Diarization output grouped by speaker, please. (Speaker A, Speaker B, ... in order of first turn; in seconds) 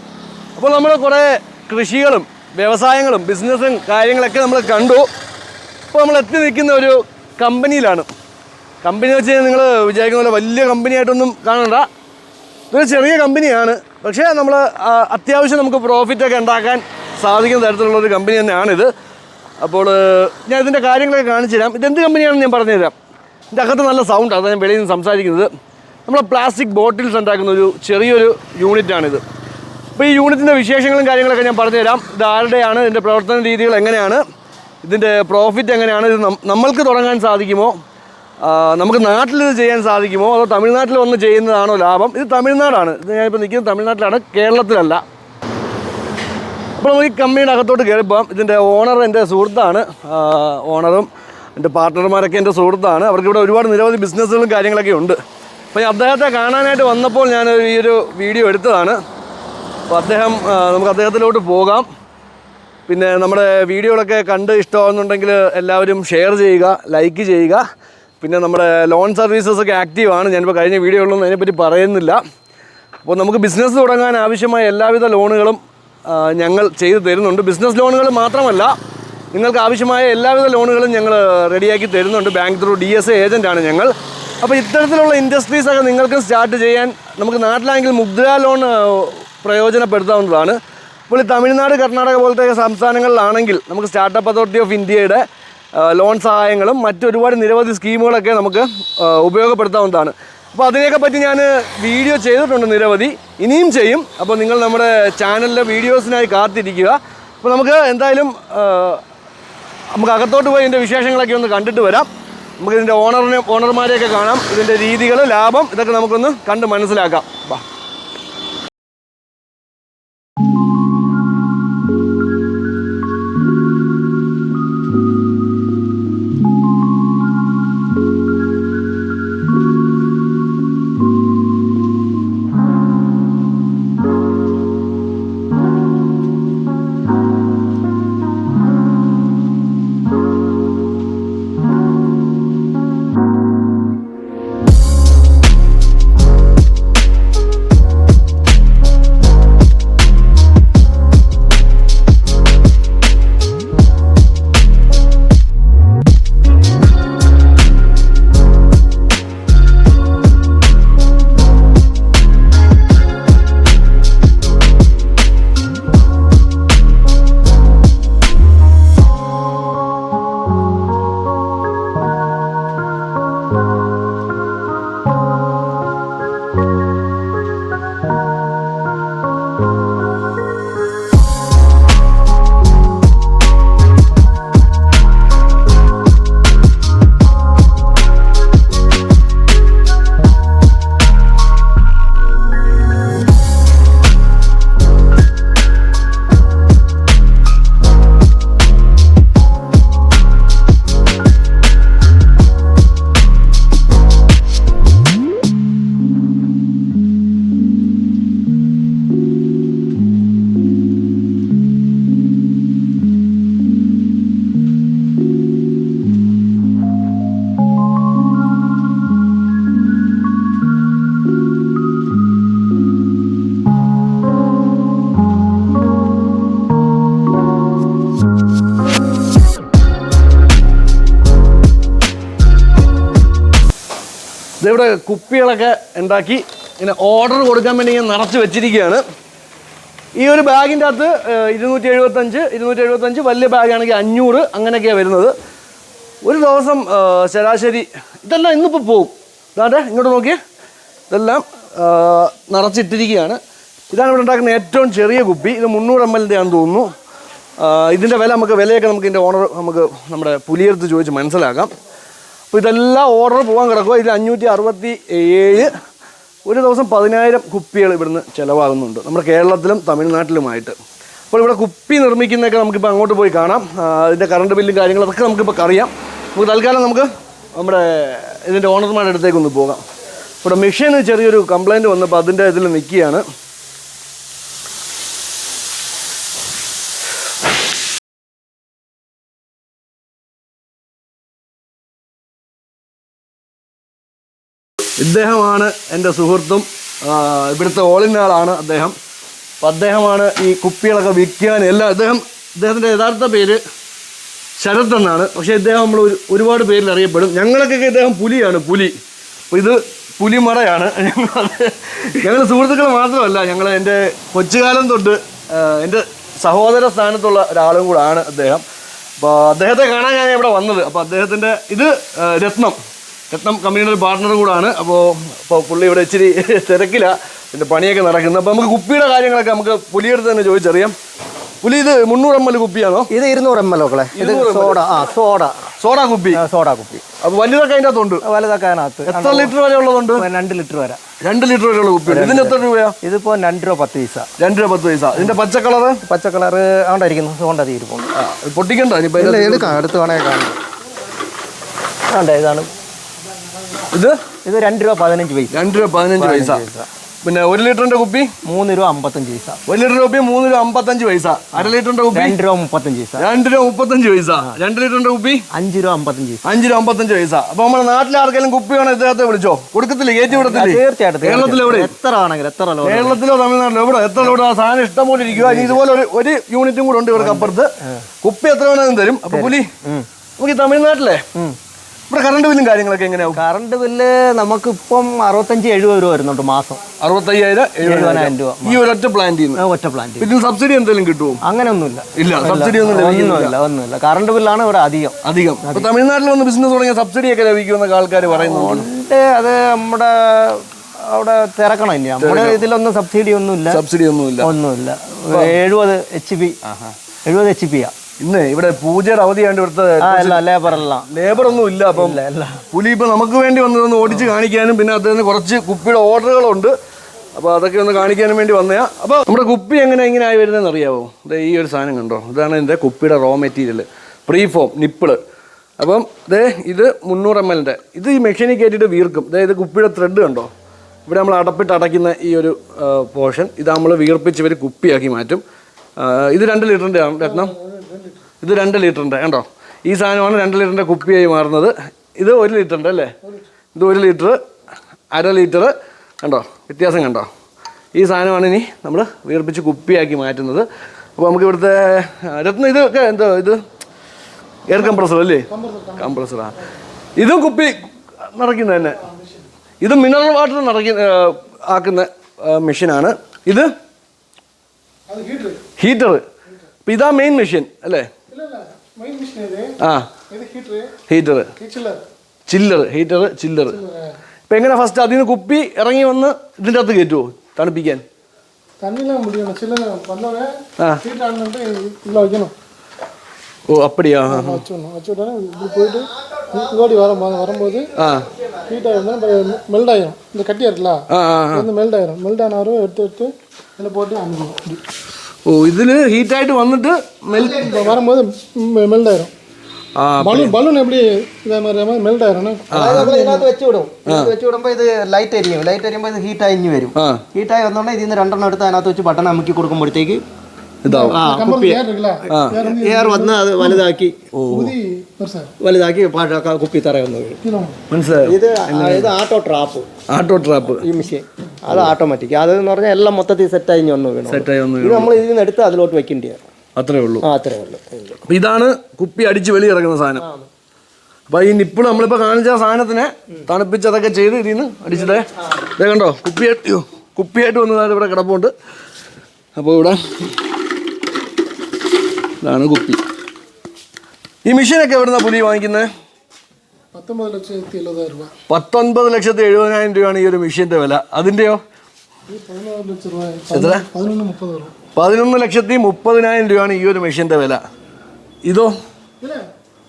Speaker A: 0.6-5.0, 5.9-8.1, 8.8-11.8, 12.7-18.9, 19.6-22.9, 23.5-25.5, 26.1-29.2, 29.9-34.2, 34.8-37.7, 38.4-45.0, 46.8-55.1, 55.7-59.0, 59.9-61.9, 62.9-67.6, 68.2-72.2, 73.0-78.7, 79.3-90.6, 91.1-95.2, 95.7-109.0, 109.9-112.1, 112.6-117.6, 234.6-239.0, 240.2-245.3, 246.2-250.4, 251.1-253.4, 253.9-256.9, 257.6-261.7, 262.5-265.7, 266.4-270.7, 271.3-279.8, 280.4-283.2, 295.0-298.9, 299.6-303.6, 304.6-308.9, 309.5-318.6, 319.2-322.8, 323.3-330.9, 331.6-333.1, 334.1-334.8, 335.8-336.4, 337.2-338.2, 339.0-340.2, 341.2-342.9, 344.4-346.0, 348.1-349.8, 353.9-354.2, 355.5-356.6, 357.2-358.3, 359.6-362.3, 363.2-365.4, 366.4-371.9, 372.8-377.7, 378.2-379.7, 380.4-381.2, 382.1-383.4, 387.0-389.6, 390.2-391.4, 392.1-393.5, 395.2-398.9, 402.2-402.6, 403.7-404.5, 408.2-410.4, 411.1-412.2, 412.7-416.7, 417.4-425.2, 425.8-430.5, 431.1-435.4, 436.0-437.5, 438.4-443.1, 443.7-444.4, 445.1-447.3, 447.9-450.6, 451.2-453.6, 454.7-456.6, 457.2-457.8, 458.3-459.1, 459.8-463.7, 465.8-466.2, 466.8-468.1, 469.8-470.1, 471.1-471.5, 472.5-473.8, 474.5-478.0, 483.7-484.6, 487.9-488.3, 491.1-491.7, 495.4-497.7, 500.0-500.6, 502.7-503.1, 504.1-504.3, 506.9-507.2, 510.8-511.2, 512.3-512.6, 514.3-514.7, 517.9-519.1, 520.1-520.9, 524.3-525.2, 526.8-527.2, 528.2-530.2, 531.3-538.5, 539.5-540.0, 542.4-543.0, 544.4-545.9, 548.5-551.6, 553.5-553.8, 554.9-557.6, 558.4-558.7
Speaker B: 333.1-335.5, 336.3-337.0, 338.2-339.5, 340.2-341.0, 342.1-344.3, 346.0-348.1, 349.2-350.6, 352.1-352.7, 354.4-355.6, 356.2-356.9, 358.4-359.6, 361.6-363.2, 365.5-366.4, 370.3-373.2, 375.3-375.8, 377.1-377.5, 379.3-380.1, 383.3-386.8, 387.8-388.8, 389.5-390.3, 391.4-395.9, 398.3-403.8, 404.4-406.6, 407.2-407.9, 410.0-411.1, 411.8-412.6, 485.6-489.6, 497.3-498.0, 502.7-510.2, 511.0-514.1, 515.6-517.4, 518.2-519.9, 520.6-526.4, 527.2-528.2, 530.2-530.5, 535.4-535.7
Speaker C: 437.2-438.2, 454.8-456.2, 459.0-459.5, 465.1-465.6, 468.3-469.8, 470.3-470.9, 471.6-472.0, 473.7-474.1, 478.8-482.5, 484.3-487.9, 488.7-494.8, 497.4-499.3, 500.2-503.5, 510.9-513.8, 514.5-515.5, 517.4-517.8, 546.9-548.3, 552.3-554.7